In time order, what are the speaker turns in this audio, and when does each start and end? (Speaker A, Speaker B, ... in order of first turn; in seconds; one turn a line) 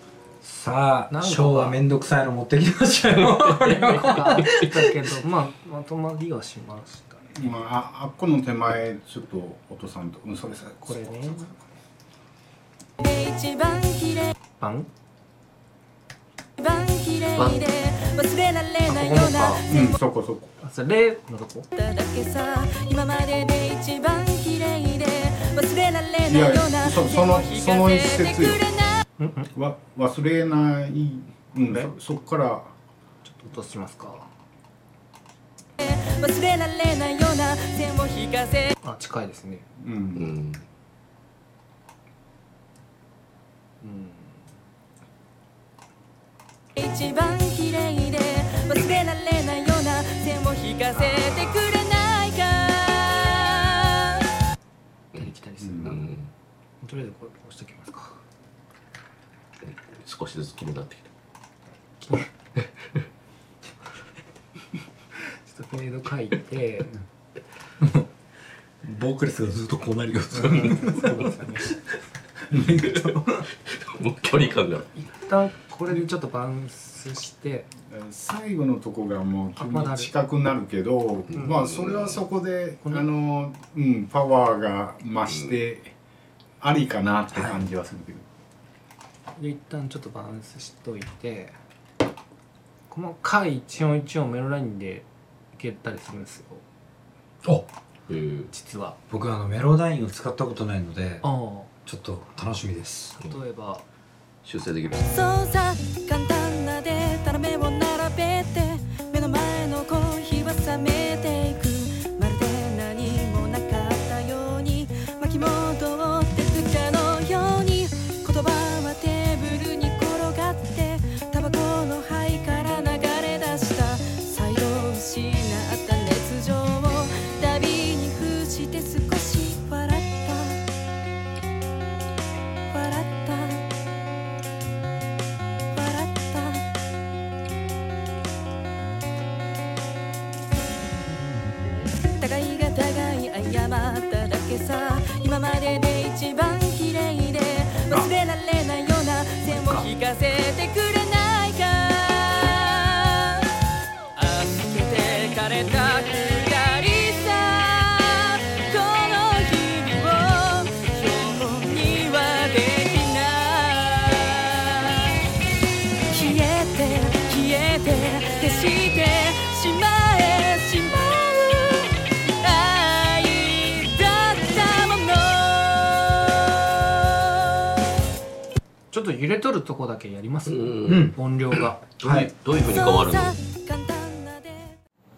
Speaker A: 0.4-4.8
Speaker B: 1.1-1.8
Speaker C: 3.2-4.5
Speaker B: 3.9-7.7
Speaker D: 7.4-11.0
Speaker B: 10.8-11.6
Speaker E: 13.0-14.3
Speaker B: 14.6-14.9
Speaker E: 16.6-19.6
Speaker C: 17.3-17.7
Speaker B: 18.9-19.7
Speaker D: 19.7-20.5
Speaker B: 20.6-21.7
Speaker E: 21.7-27.9
Speaker D: 26.3-28.7
Speaker B: 29.2-29.5
Speaker D: 29.5-32.7
Speaker B: 31.6-31.9
Speaker B: 33.2-34.3
Speaker E: 35.8-38.8
Speaker B: 38.8-39.6
Speaker D: 39.8-40.3
Speaker C: 40.1-40.6
Speaker B: 43.8-44.4
Speaker E: 46.8-54.2
Speaker B: 51.1-51.6
Speaker B: 55.1-56.0
Speaker C: 55.8-56.3
Speaker B: 56.8-58.1
Speaker C: 59.6-61.1
Speaker B: 62.0-62.3
Speaker B: 65.2-67.0
Speaker A: 67.8-68.0
Speaker A: 68.8-71.7
Speaker B: 70.3-71.7
Speaker A: 72.5-73.5
Speaker C: 72.5-73.1
Speaker C: 73.6-74.9
Speaker B: 75.0-77.7
Speaker D: 77.9-85.9
Speaker B: 79.5-80.1
Speaker B: 81.3-81.8
Speaker C: 81.3-82.2
Speaker B: 82.8-83.1
Speaker C: 85.3-85.6
Speaker D: 86.6-88.2
Speaker A: 87.3-87.6
Speaker B: 89.4-91.5
Speaker B: 92.9-96.6
Speaker C: 98.1-98.5
Speaker B: 98.5-99.0
Speaker A: 99.1-101.2
Speaker B: 101.2-101.7
Speaker A: 101.8-103.2
Speaker B: 103.2-103.8
Speaker C: 104.4-105.2
Speaker E: 105.1-130.6
Speaker E: 132.7-133.6
Speaker E: 135.7-136.6
Speaker E: 142.2-153.4
Speaker B: 149.5-149.8
Speaker E: 154.2-165.2
Speaker E: 166.1-176.3
Speaker B: 178.9-181.9
Speaker C: 180.5-183.4
Speaker A: 180.8-181.2
Speaker A: 182.0-182.3
Speaker E: 182.6-184.7